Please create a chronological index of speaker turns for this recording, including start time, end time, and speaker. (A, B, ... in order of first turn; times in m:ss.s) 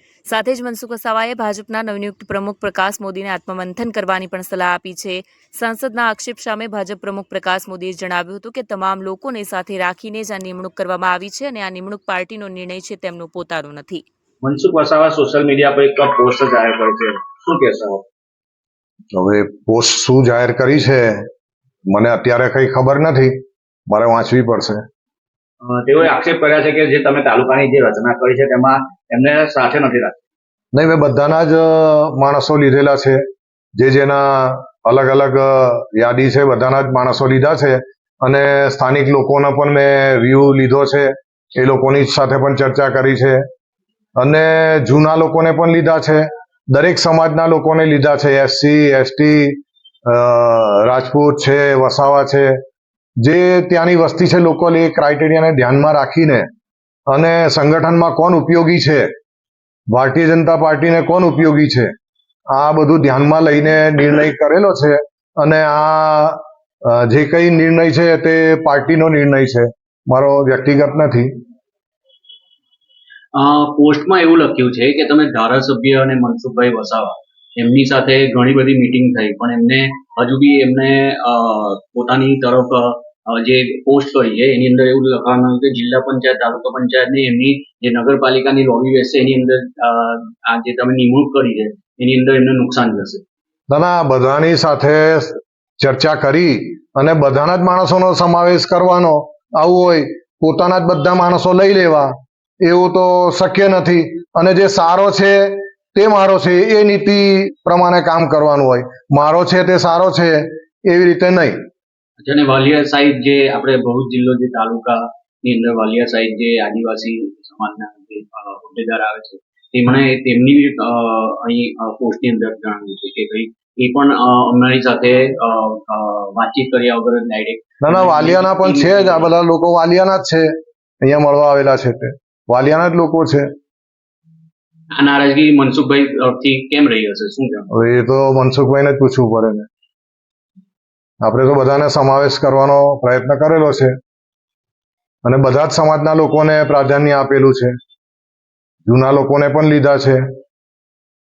0:00.3-0:14.0 A
0:14.4-0:18.0 B
0:19.1-0:21.2 C
0:21.9-0:23.4 C
0:23.9-0:24.8 C
0:25.6-0:30.2 B
0:30.7-0:33.2 C
0:33.8-0:43.4 C
0:44.2-0:52.6 C
0:53.2-0:56.5 C
0:57.1-0:59.1 C
0:59.9-1:01.9 C
1:02.5-1:11.3 C
1:13.3-1:33.2 D
1:33.7-1:51.6 C
1:52.2-2:09.3 D
2:07.8-2:10.5 C
2:11.0-2:13.5 C
2:14.9-2:17.7 D
2:17.7-2:19.7 C
2:21.2-2:24.0 C
2:25.2-2:27.8 C
2:28.9-2:30.2 C